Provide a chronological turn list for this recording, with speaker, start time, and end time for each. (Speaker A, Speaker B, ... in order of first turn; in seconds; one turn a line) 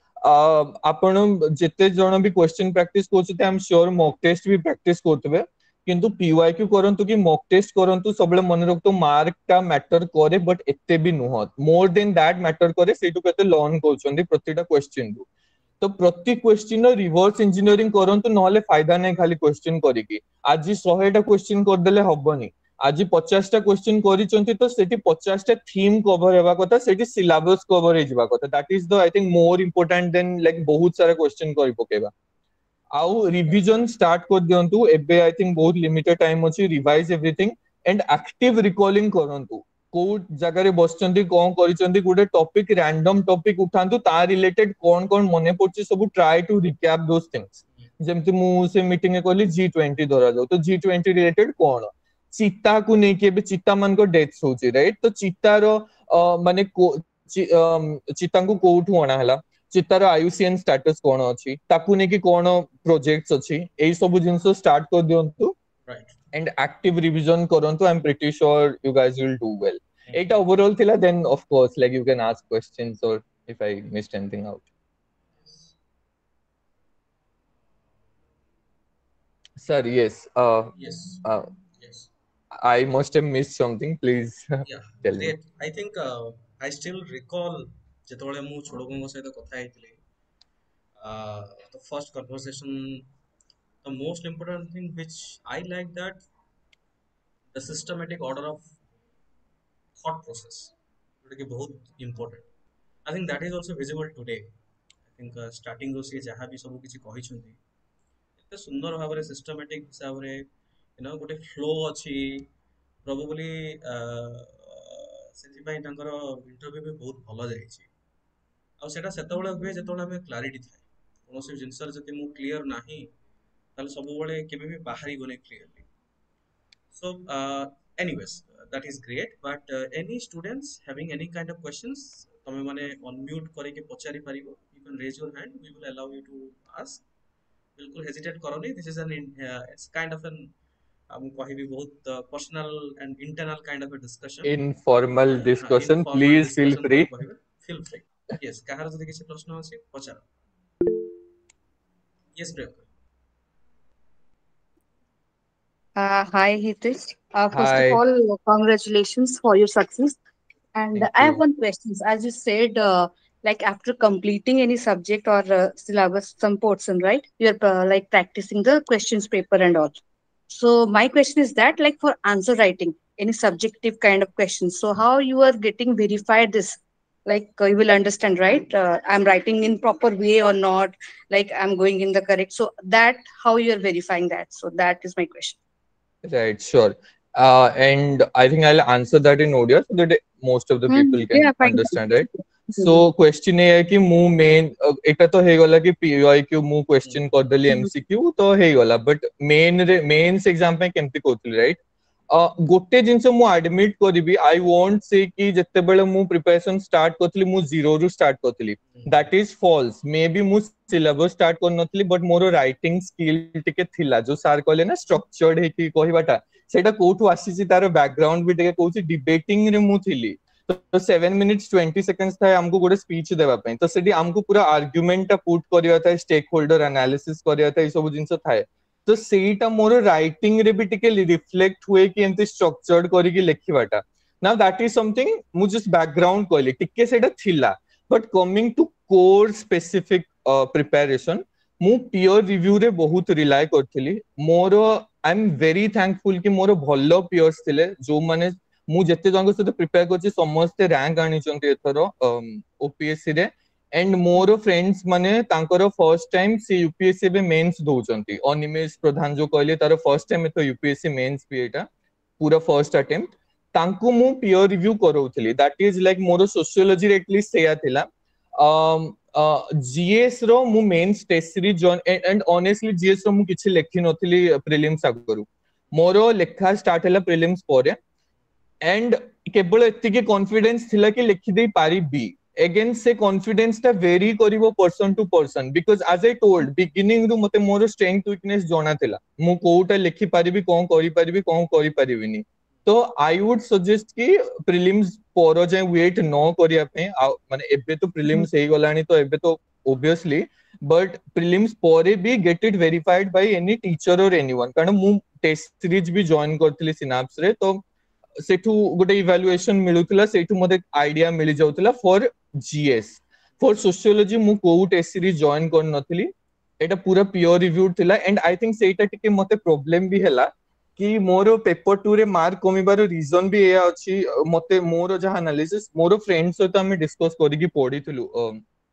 Speaker A: 0.2-15.3
Speaker A: 15.8-32.1
Speaker A: 32.9-65.5
Speaker B: 65.8-66.2
Speaker A: 66.3-74.7
Speaker B: 70.1-70.3
Speaker B: 75.4-75.7
Speaker A: 79.6-80.7
Speaker B: 80.8-81.2
Speaker B: 81.8-82.1
Speaker A: 82.6-85.3
Speaker B: 84.6-90.0
Speaker B: 91.0-93.1
Speaker B: 93.8-96.2
Speaker B: 97.5-98.8
Speaker B: 100.0-102.5
Speaker B: 103.1-104.5
Speaker B: 105.2-107.6
Speaker B: 108.5-110.4
Speaker B: 111.0-112.5
Speaker B: 113.0-117.9
Speaker B: 118.8-123.1
Speaker B: 123.8-125.9
Speaker B: 126.9-137.0
Speaker B: 137.8-140.5
Speaker B: 141.1-144.5
Speaker A: 144.4-147.1
Speaker B: 145.3-150.2
Speaker B: 152.3-152.8
Speaker C: 156.0-160.2
Speaker A: 157.5-158.0
Speaker C: 160.8-170.0
Speaker A: 160.9-161.4
Speaker C: 170.5-185.6
Speaker A: 186.2-201.8
Speaker C: 190.9-192.2
Speaker C: 192.7-193.1
Speaker A: 202.3-261.9
Speaker A: 262.4-268.1
Speaker A: 268.6-278.0
Speaker A: 278.8-307.8
Speaker A: 308.4-328.6